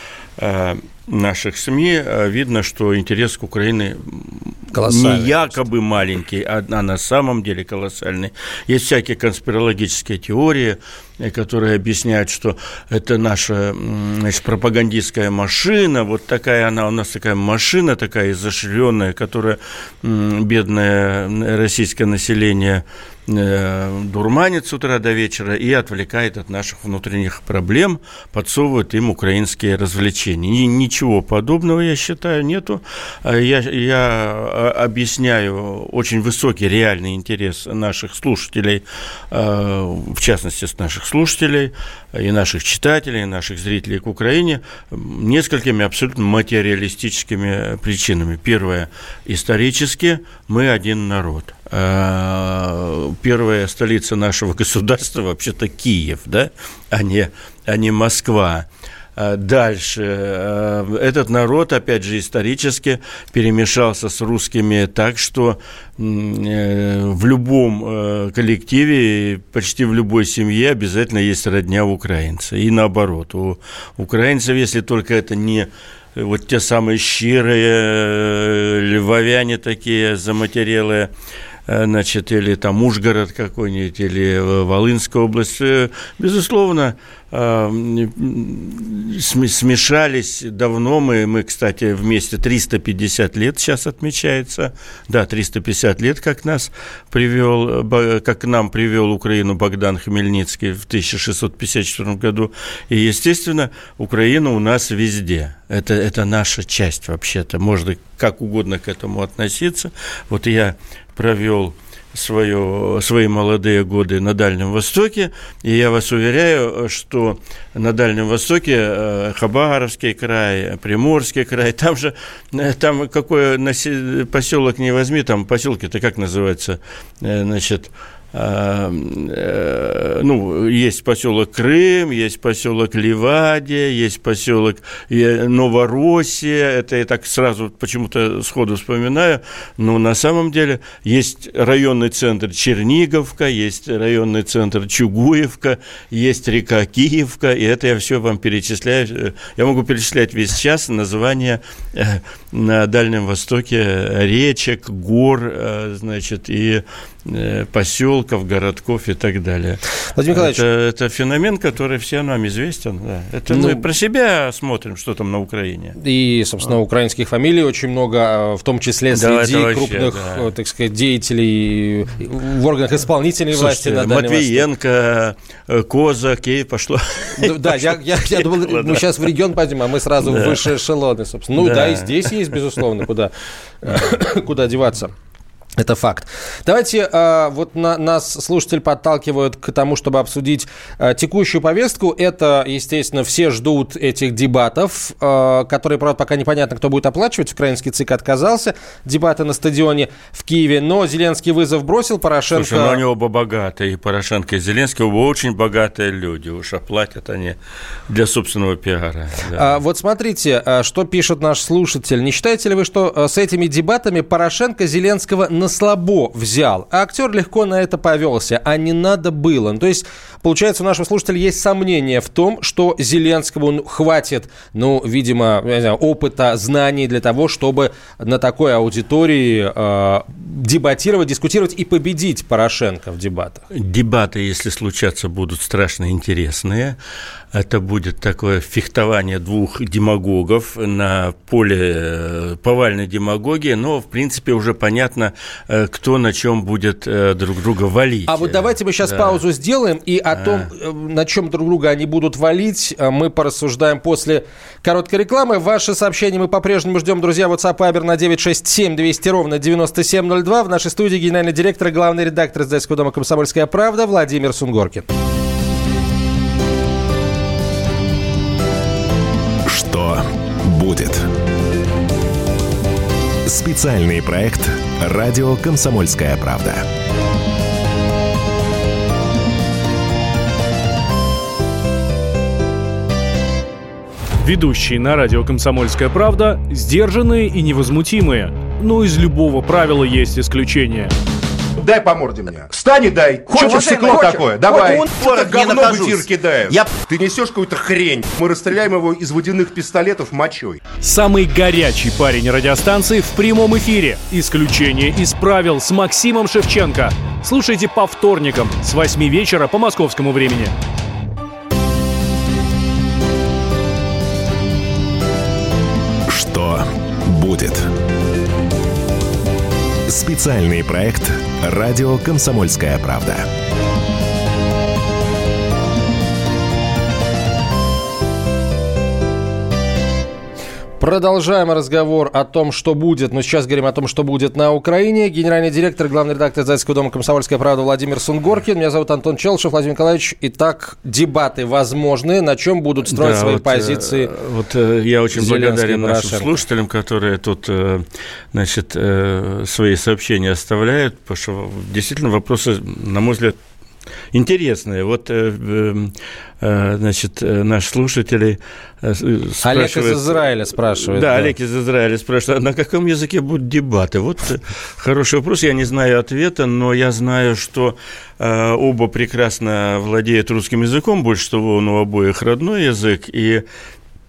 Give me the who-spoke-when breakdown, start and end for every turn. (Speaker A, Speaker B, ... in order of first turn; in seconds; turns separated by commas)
Speaker A: 0.4-81.1, Speaker B: 4.7-5.6, Speaker A: 81.7-159.8, Speaker B: 160.2-160.6, Speaker A: 160.3-166.0, Speaker B: 163.5-163.9, Speaker B: 166.0-174.7, Speaker A: 169.1-170.5, Speaker A: 173.5-179.1, Speaker B: 177.4-185.1, Speaker A: 180.2-180.7, Speaker A: 181.6-182.3, Speaker B: 185.8-203.0, Speaker A: 202.5-207.6, Speaker A: 208.1-209.7, Speaker B: 209.6-233.6, Speaker A: 233.7-237.0, Speaker A: 237.5-249.4, Speaker B: 248.3-265.1, Speaker A: 250.3-250.7, Speaker C: 269.6-271.3, Speaker C: 273.4-276.9, Speaker D: 284.4-291.1, Speaker E: 291.8-300.8, Speaker D: 293.6-294.1, Speaker D: 301.0-310.8, Speaker C: 316.3-317.9, Speaker C: 320.1-323.5, Speaker B: 331.0-344.3, Speaker A: 343.1-353.6, Speaker B: 345.3-346.6, Speaker A: 354.3-360.4, Speaker B: 359.6-361.5, Speaker A: 361.0-373.6